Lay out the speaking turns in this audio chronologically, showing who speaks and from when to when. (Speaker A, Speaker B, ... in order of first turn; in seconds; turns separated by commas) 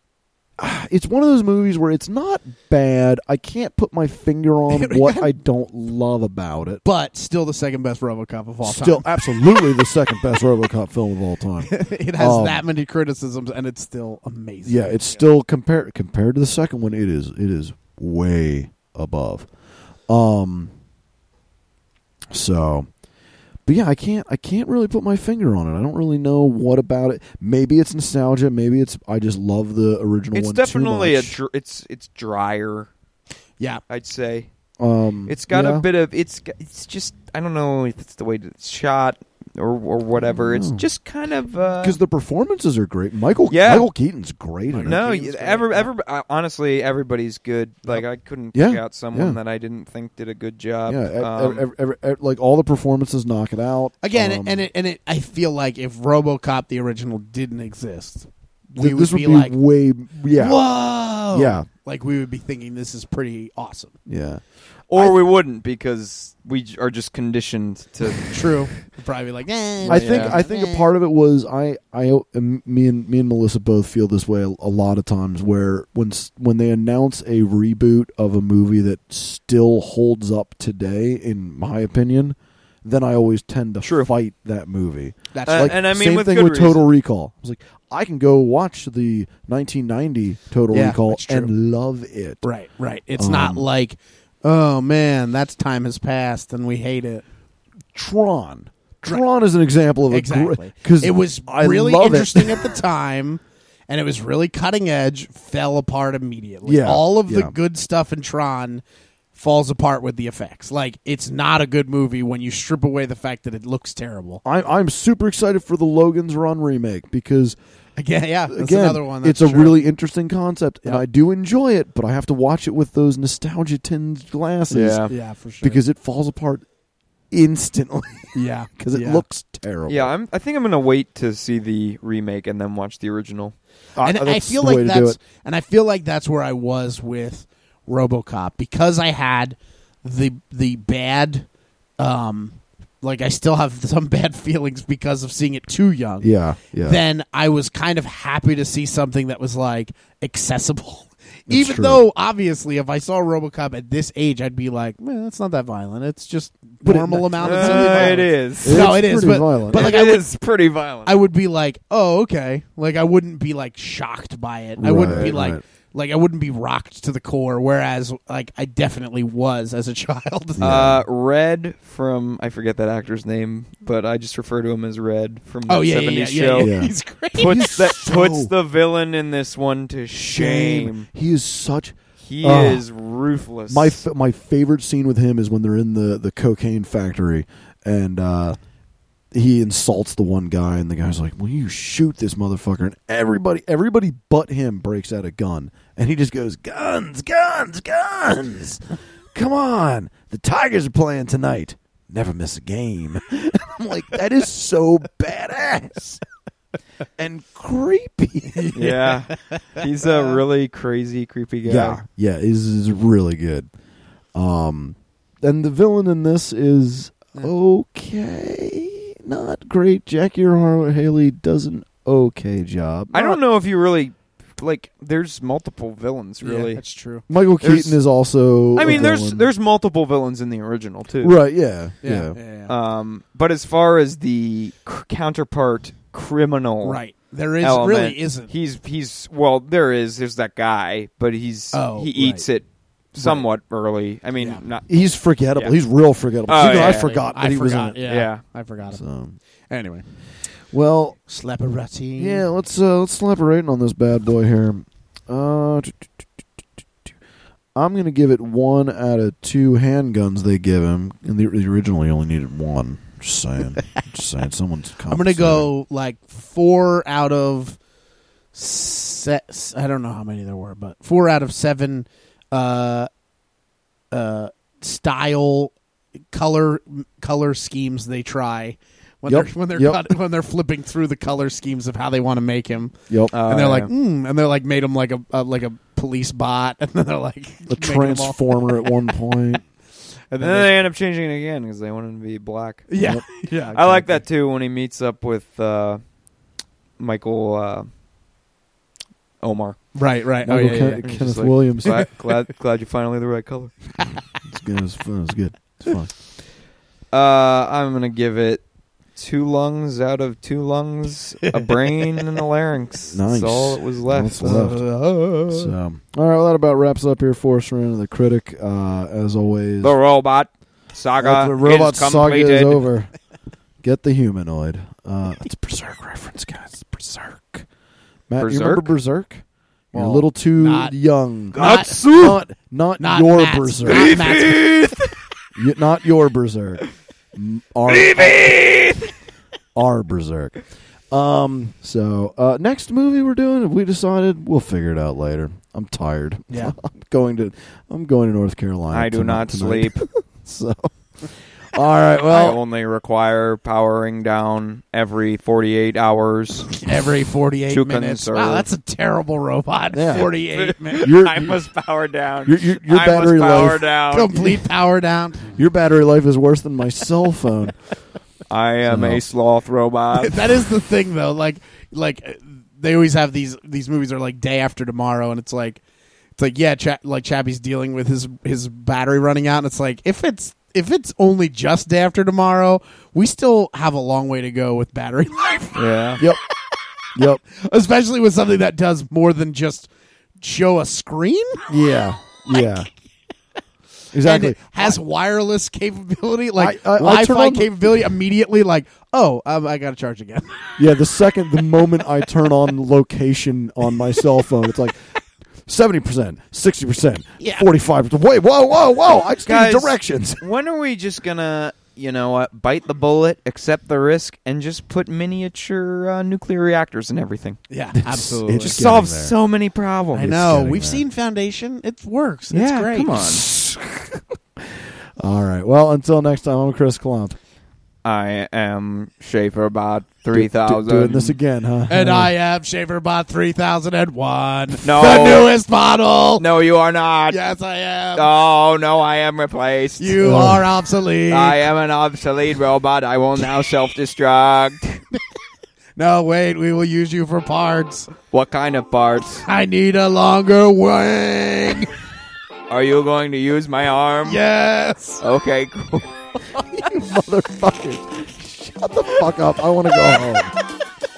Speaker A: 0.6-6.8, Speaker B: 4.7-5.3, Speaker B: 6.8-9.6, Speaker A: 8.6-12.6, Speaker B: 11.7-15.2, Speaker A: 14.7-19.5, Speaker A: 20.1-20.7, Speaker A: 22.3-22.9, Speaker A: 23.7-31.4, Speaker C: 30.3-32.9, Speaker C: 33.9-34.5, Speaker A: 34.8-35.9, Speaker C: 35.3-42.0, Speaker A: 40.2-40.9, Speaker A: 41.8-45.0, Speaker C: 43.5-43.9, Speaker B: 44.7-45.9, Speaker C: 44.8-51.6, Speaker A: 48.5-49.4, Speaker A: 50.9-54.7, Speaker B: 54.0-59.6, Speaker A: 58.7-60.6, Speaker B: 60.3-64.0, Speaker A: 61.2-61.7, Speaker A: 64.1-64.4, Speaker C: 64.9-68.3, Speaker B: 68.3-70.9, Speaker C: 69.8-70.4, Speaker A: 69.8-92.4, Speaker C: 83.8-84.1, Speaker B: 85.3-85.7, Speaker C: 85.5-86.8, Speaker B: 90.7-91.5, Speaker B: 92.4-97.2, Speaker A: 93.2-93.6, Speaker A: 98.0-102.7, Speaker B: 100.1-108.8, Speaker A: 106.7-107.5, Speaker B: 109.3-114.4, Speaker A: 114.5-117.6, Speaker B: 118.0-119.8, Speaker A: 118.5-125.1, Speaker C: 124.7-125.1, Speaker B: 125.1-125.8, Speaker A: 125.6-126.7, Speaker A: 127.3-130.1, Speaker B: 128.3-129.2, Speaker C: 129.9-133.6, Speaker A: 134.0-135.2, Speaker B: 134.0-141.5, Speaker B: 142.0-146.3, Speaker A: 146.2-147.0, Speaker B: 146.8-160.3, Speaker A: 151.5-152.1, Speaker A: 156.8-160.0, Speaker C: 157.4-158.9, Speaker C: 159.7-161.2, Speaker B: 161.1-170.8, Speaker A: 164.8-165.6, Speaker A: 170.6-171.0, Speaker C: 170.6-176.8, Speaker B: 175.7-177.8, Speaker A: 176.6-178.5, Speaker C: 177.4-181.1, Speaker A: 180.1-182.8, Speaker C: 182.2-184.0, Speaker A: 183.7-188.6, Speaker A: 189.3-206.2, Speaker A: 207.2-208.7, Speaker B: 208.5-210.4, Speaker C: 208.8-212.0, Speaker A: 211.7-213.7, Speaker A: 214.3-223.4, Speaker C: 223.1-226.8, Speaker B: 226.4-227.2, Speaker A: 227.3-229.5, Speaker C: 227.6-228.0, Speaker C: 228.8-231.4, Speaker A: 231.2-232.4, Speaker B: 232.0-232.8, Speaker C: 232.7-237.0, Speaker B: 236.8-238.5, Speaker C: 237.6-244.9, Speaker B: 241.7-242.5, Speaker B: 243.1-243.5, Speaker A: 244.9-248.0, Speaker C: 246.5-247.2, Speaker B: 246.6-249.0, Speaker C: 248.1-248.4, Speaker A: 248.9-249.4, Speaker B: 249.7-250.1, Speaker A: 250.7-251.2, Speaker B: 251.3-252.4, Speaker A: 252.2-256.1, Speaker A: 257.8-265.7, Speaker B: 265.1-267.8, Speaker B: 268.5-273.1, Speaker B: 274.1-275.7, Speaker B: 276.3-289.1, Speaker A: 279.3-280.1, Speaker C: 283.3-283.9, Speaker A: 287.7-289.6, Speaker B: 290.3-290.8, Speaker C: 290.4-292.9, Speaker B: 292.9-294.2, Speaker A: 293.0-293.3, Speaker C: 293.7-296.0, Speaker C: 297.0-297.9, Speaker C: 299.4-299.8, Speaker B: 299.9-301.0, Speaker A: 300.4-302.0, Speaker C: 301.0-303.8, Speaker A: 304.5-306.1, Speaker C: 307.1-308.6, Speaker C: 309.2-314.8, Speaker B: 311.5-312.0, Speaker A: 313.1-314.8, Speaker B: 314.4-315.7, Speaker A: 315.5-320.0, Speaker C: 319.8-322.9, Speaker A: 321.2-323.1, Speaker A: 323.8-327.7, Speaker A: 328.3-334.4, Speaker C: 328.4-328.9, Speaker B: 329.9-330.9, Speaker B: 331.5-332.0, Speaker C: 331.5-332.4, Speaker B: 333.0-334.9, Speaker C: 333.9-335.1, Speaker A: 335.6-338.6, Speaker C: 337.9-339.1, Speaker A: 339.8-340.6, Speaker A: 341.1-352.6, Speaker B: 346.5-346.8, Speaker C: 348.9-350.0, Speaker C: 352.2-356.8, Speaker B: 356.8-361.1, Speaker C: 357.7-358.7, Speaker A: 359.9-360.3, Speaker C: 360.5-364.6, Speaker A: 361.0-361.6, Speaker A: 362.4-363.9, Speaker B: 364.1-365.5, Speaker A: 365.5-367.8, Speaker C: 368.5-370.7, Speaker A: 368.9-369.2, Speaker B: 370.2-375.8, Speaker B: 376.4-385.9, Speaker C: 385.8-386.2, Speaker A: 387.1-387.4, Speaker B: 387.5-391.6, Speaker A: 391.7-392.9, Speaker A: 394.1-395.0, Speaker B: 394.2-400.8, Speaker A: 396.6-398.0, Speaker A: 400.8-405.0, Speaker A: 405.7-410.4, Speaker B: 407.4-407.7, Speaker C: 409.5-417.6, Speaker B: 417.7-418.8, Speaker A: 418.0-419.4, Speaker C: 418.5-420.4, Speaker B: 420.1-423.2, Speaker A: 420.2-421.0, Speaker C: 422.5-423.5, Speaker A: 423.2-427.4, Speaker C: 428.1-431.4, Speaker A: 430.3-432.3, Speaker B: 431.9-436.5, Speaker C: 434.8-435.5, Speaker C: 436.4-437.4, Speaker B: 437.3-438.3, Speaker C: 438.1-440.6, Speaker B: 440.0-441.6, Speaker A: 440.2-440.6, Speaker C: 441.3-445.0, Speaker B: 446.0-448.1, Speaker C: 448.3-449.5, Speaker B: 449.5-451.9, Speaker C: 452.7-454.4, Speaker B: 454.3-455.2, Speaker C: 455.2-456.1, Speaker A: 456.7-460.5